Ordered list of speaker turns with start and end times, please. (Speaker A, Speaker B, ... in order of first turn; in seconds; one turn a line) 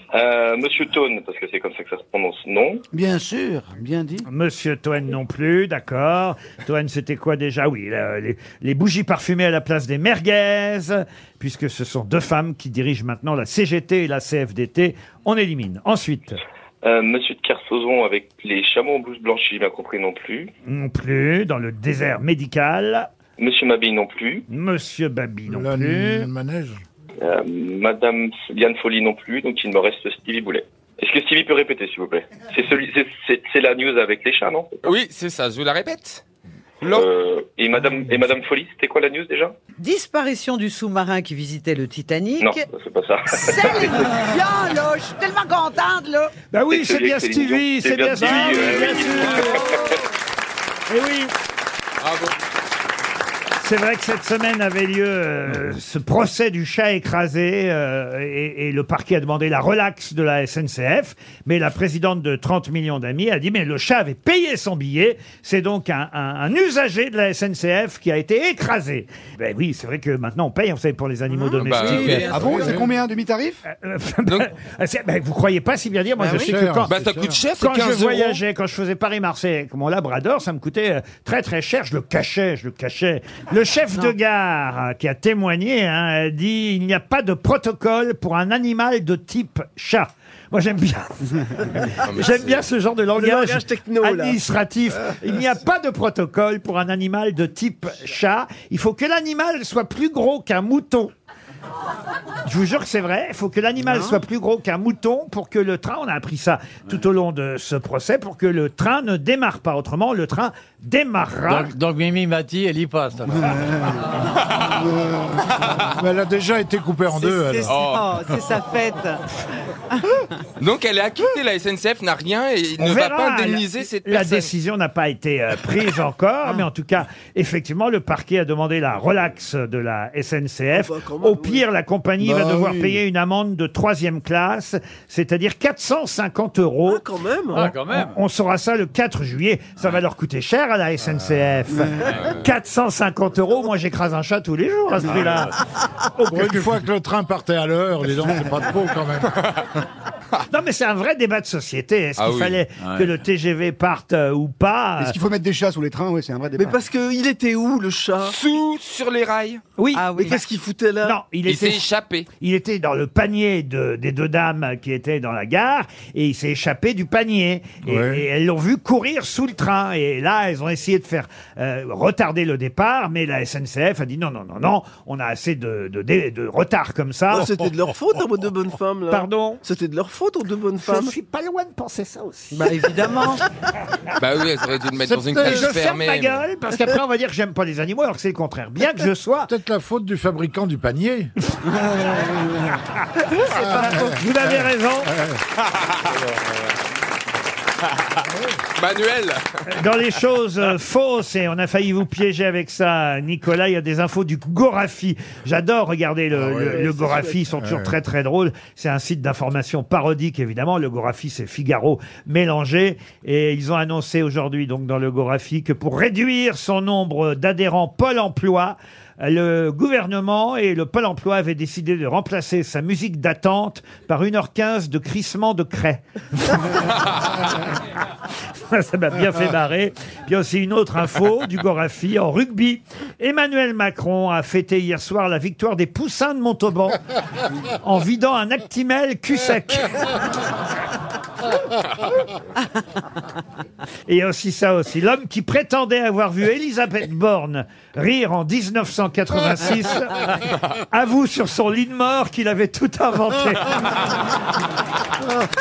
Speaker A: 0.1-2.8
Speaker B: 2.9-4.2
Speaker C: 4.2-16.4
Speaker A: 16.8-20.5
Speaker C: 20.7-23.1
Speaker A: 23.4-24.4
Speaker C: 24.5-26.3
Speaker D: 25.5-26.8
Speaker A: 27.2-34.9
Speaker E: 34.8-36.2
Speaker E: 36.8-37.1
Speaker A: 36.9-39.5
Speaker F: 39.8-42.7
Speaker A: 42.4-44.2
Speaker F: 43.3-46.3
Speaker C: 46.5-49.7
Speaker A: 46.7-49.9
Speaker F: 48.8-49.2
Speaker C: 50.9-51.3
Speaker E: 52.0-52.3
Speaker C: 53.6-72.4
Speaker F: 71.4-72.7
Speaker E: 71.6-72.3
Speaker B: 72.2-73.6
Speaker D: 72.4-72.8
Speaker C: 73.7-76.9
Speaker F: 76.2-76.5
Speaker D: 76.4-77.4
Speaker E: 76.9-78.4
Speaker C: 77.6-101.1
Speaker E: 92.0-92.7
Speaker G: 93.1-94.4
Speaker C: 102.5-111.7
Speaker H: 111.5-113.7
Speaker D: 116.0-117.8
Speaker F: 117.1-119.2
Speaker E: 117.7-118.4
Speaker E: 120.6-124.5
Speaker C: 122.8-145.6
Speaker G: 130.7-131.6
Speaker B: 132.2-132.9
Speaker G: 136.8-137.6
Speaker H: 137.6-138.1
Speaker E: 142.0-142.4
Speaker H: 145.2-145.4
Speaker C: 146.1-146.8
Speaker D: 146.3-149.3
Speaker C: 150.5-155.1
Speaker E: 152.2-152.6
Speaker H: 152.8-153.1
Speaker B: 155.0-156.8
Speaker G: 156.6-158.3
Speaker E: 158.2-159.6
Speaker C: 159.8-160.5
Speaker F: 159.9-160.4
Speaker G: 160.2-161.1
Speaker C: 161.0-177.5
Speaker E: 161.5-162.3
Speaker D: 167.9-168.2
Speaker G: 177.3-181.1
Speaker C: 179.1-179.6
Speaker C: 180.8-183.1
Speaker F: 182.6-183.4
Speaker E: 184.2-186.4
Speaker D: 185.0-185.7
Speaker C: 185.4-189.5
Speaker D: 189.5-191.3
Speaker C: 193.4-195.1
Speaker D: 193.6-194.1
Speaker E: 195.6-196.4
Speaker E: 198.8-199.6
Speaker C: 199.7-226.9
Speaker D: 206.3-206.8
Speaker G: 206.7-207.4
Speaker D: 207.6-207.9
Speaker C: 228.6-237.0
Speaker C: 237.8-240.1
Speaker C: 244.1-254.2